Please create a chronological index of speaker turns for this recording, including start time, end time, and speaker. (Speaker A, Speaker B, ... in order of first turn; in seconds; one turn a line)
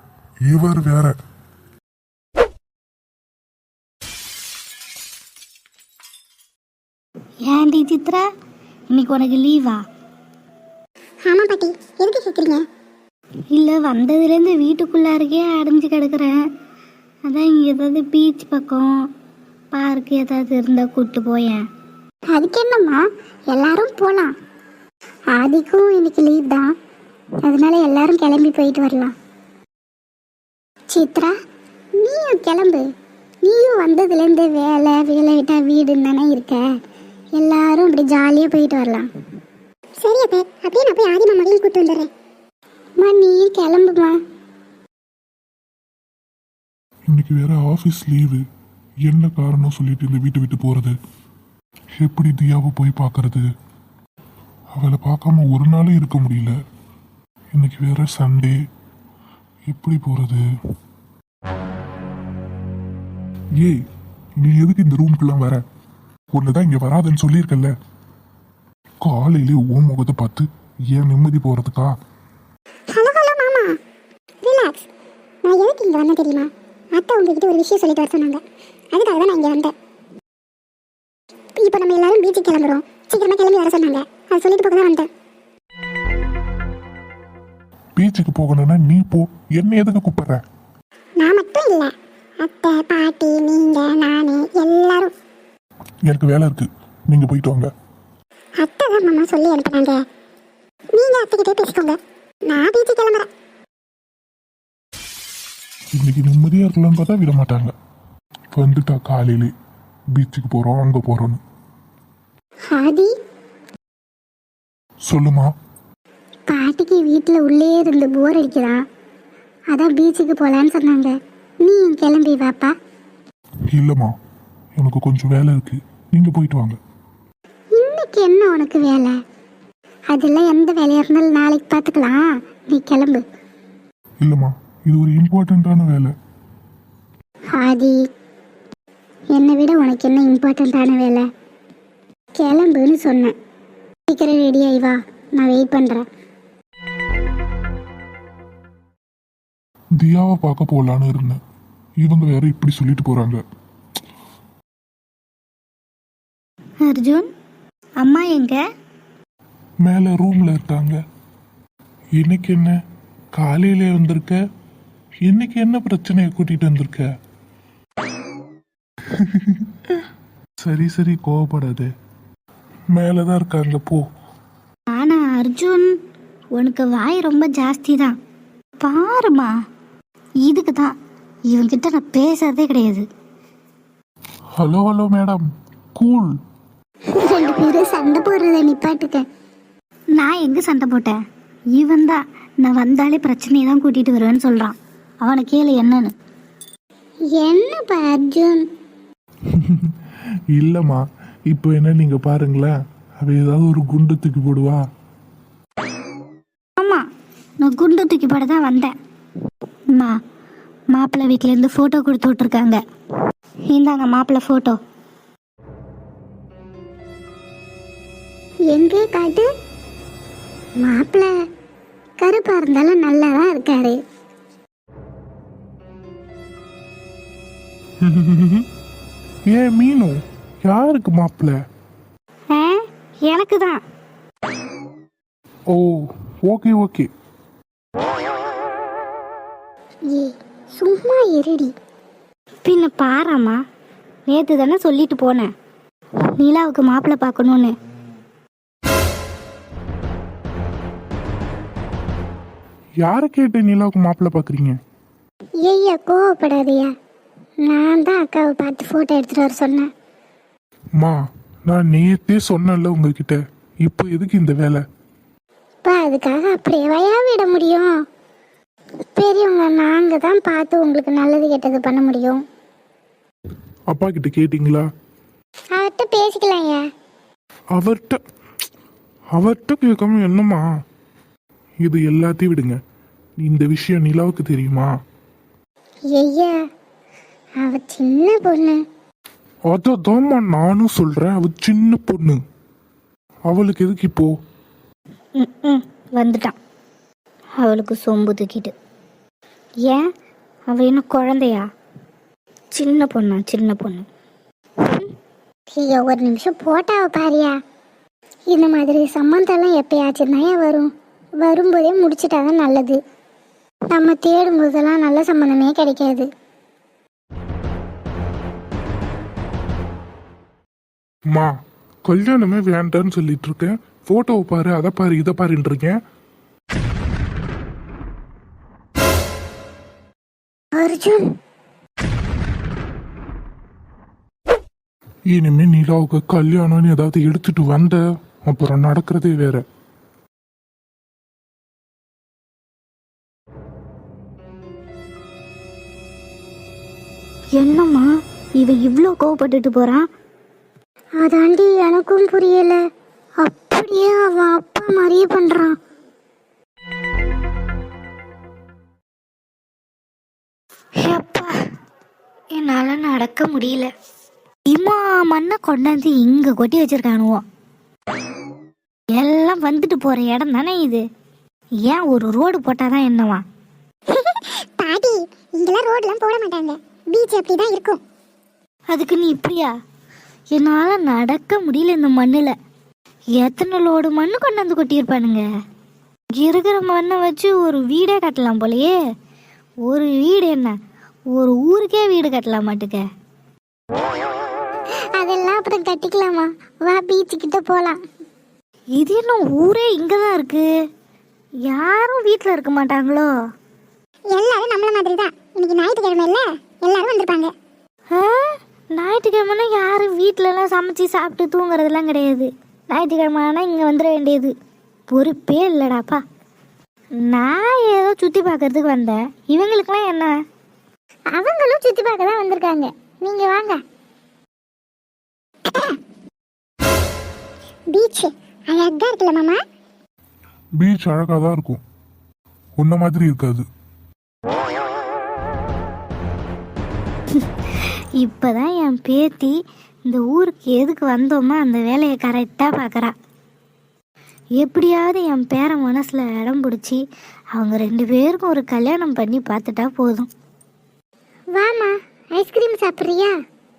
Speaker A: 0.5-1.2
Speaker B: 7.5-8.3
Speaker B: 8.9-9.8
Speaker C: 11.3-12.6
Speaker B: 13.5-16.4
Speaker B: 17.3-19.1
Speaker B: 19.7-21.6
Speaker C: 22.3-23.0
Speaker C: 23.5-24.3
Speaker C: 25.3-26.7
Speaker C: 27.4-29.1
Speaker C: 30.9-31.3
Speaker C: 32.0-32.9
Speaker C: 33.5-36.6
Speaker C: 37.4-39.1
Speaker C: 40.0-42.1
Speaker C: 43.0-44.1
Speaker A: 47.1-48.4
Speaker A: 49.1-50.9
Speaker A: 52.0-53.5
Speaker A: 54.7-56.5
Speaker A: 57.5-58.6
Speaker A: 59.7-60.4
Speaker A: 64.4-65.6
Speaker A: 66.3-67.7
Speaker A: 69.0-71.9
Speaker C: 72.9-73.7
Speaker C: 74.4-74.8
Speaker C: 75.5-78.4
Speaker C: 78.9-79.7
Speaker C: 81.6-85.1
Speaker A: 88.0-90.4
Speaker C: 91.2-95.1
Speaker A: 96.0-97.7
Speaker C: 98.6-100.0
Speaker C: 100.9-103.3
Speaker A: 105.9-107.7
Speaker A: 108.5-109.5
Speaker A: 110.1-111.4
Speaker C: 112.7-113.1
Speaker A: 115.1-115.5
Speaker C: 116.5-118.8
Speaker C: 119.7-121.1
Speaker C: 121.7-122.7
Speaker A: 123.7-124.1
Speaker A: 124.8-126.8
Speaker C: 127.8-129.2
Speaker C: 130.1-133.2
Speaker A: 134.2-136.1
Speaker C: 137.6-137.9
Speaker C: 139.3-141.2
Speaker C: 142.4-143.3
Speaker C: 144.1-146.0
Speaker A: 150.0-151.4
Speaker A: 152.0-153.4
Speaker B: 156.8-157.3
Speaker B: 158.0-158.6
Speaker A: 159.8-161.0
Speaker A: 162.2-162.8
Speaker A: 163.3-164.4
Speaker A: 165.2-167.1
Speaker A: 169.1-170.0
Speaker A: 170.6-171.9
Speaker A: 172.9-174.0
Speaker B: 174.9-175.9
Speaker B: 176.5-178.2
Speaker B: 178.8-179.5
Speaker B: 180.4-180.9
Speaker B: 181.5-183.1
Speaker A: 184.6-186.4
Speaker C: 187.1-189.2
Speaker B: 190.1-191.2
Speaker B: 191.8-196.1
Speaker C: 197.3-198.6
Speaker A: 199.5-199.9
Speaker A: 200.5-204.8
Speaker B: 206.8-207.0
Speaker B: 207.6-208.9
Speaker B: 210.9-212.8
Speaker B: 213.7-214.8
Speaker C: 218.7-219.5
Speaker C: 220.8-221.3
Speaker C: 222.2-224.0
Speaker A: 228.0-228.7
Speaker A: 229.5-231.6
Speaker B: 232.5-233.8
Speaker A: 235.7-237.1
Speaker C: 240.1-241.7
Speaker B: 242.7-243.6
Speaker B: 244.3-245.5
Speaker B: 246.3-247.7
Speaker A: 253.0-254.8
Speaker C: 255.7-256.9
Speaker C: 257.6-259.9
Speaker A: 261.0-264.8
Speaker C: 265.8-267.9
Speaker C: 269.1-272.4
Speaker A: 273.9-274.9
Speaker C: 275.7-276.8
Speaker A: 277.8-278.2
Speaker A: 279.3-280.6
Speaker A: 281.8-282.8
Speaker A: 283.4-284.9
Speaker C: 286.1-286.6
Speaker C: 287.6-288.8
Speaker A: 289.7-292.4
Speaker A: 293.5-294.3
Speaker B: 295.4-296.6
Speaker B: 297.6-298.7
Speaker B: 300.7-301.6
Speaker B: 302.7-304.1
Speaker C: 305.7-307.5
Speaker C: 308.5-310.9
Speaker C: 311.4-313.0
Speaker C: 313.9-316.3
Speaker A: 322.1-326.0
Speaker C: 330.8-331.2
Speaker A: 335.3-339.6
Speaker B: 347.6-350.1
Speaker C: 351.2-352.8
Speaker C: 353.4-355.8
Speaker B: 361.0-361.6
Speaker B: 362.5-363.9
Speaker B: 364.7-367.4
Speaker B: 369.1-371.0
Speaker B: 371.9-373.4
Speaker C: 374.1-378.0
Speaker B: 378.9-379.7
Speaker B: 380.5-382.5
Speaker B: 383.4-385.4
Speaker B: 386.4-388.9
Speaker B: 389.9-390.8
Speaker B: 391.3-393.0
Speaker C: 395.2-398.0
Speaker B: 399.0-400.7
Speaker B: 401.7-403.3
Speaker C: 404.4-407.5
Speaker B: 408.1-414.5
Speaker B: 415.1-416.2
Speaker B: 417.2-420.3
Speaker C: 421.4-423.8
Speaker C: 427.9-429.6
Speaker A: 430.8-431.8
Speaker A: 432.8-433.6
Speaker B: 437.4-443.1
Speaker B: 444.6-447.0
Speaker B: 447.6-450.3
Speaker C: 451.6-453.3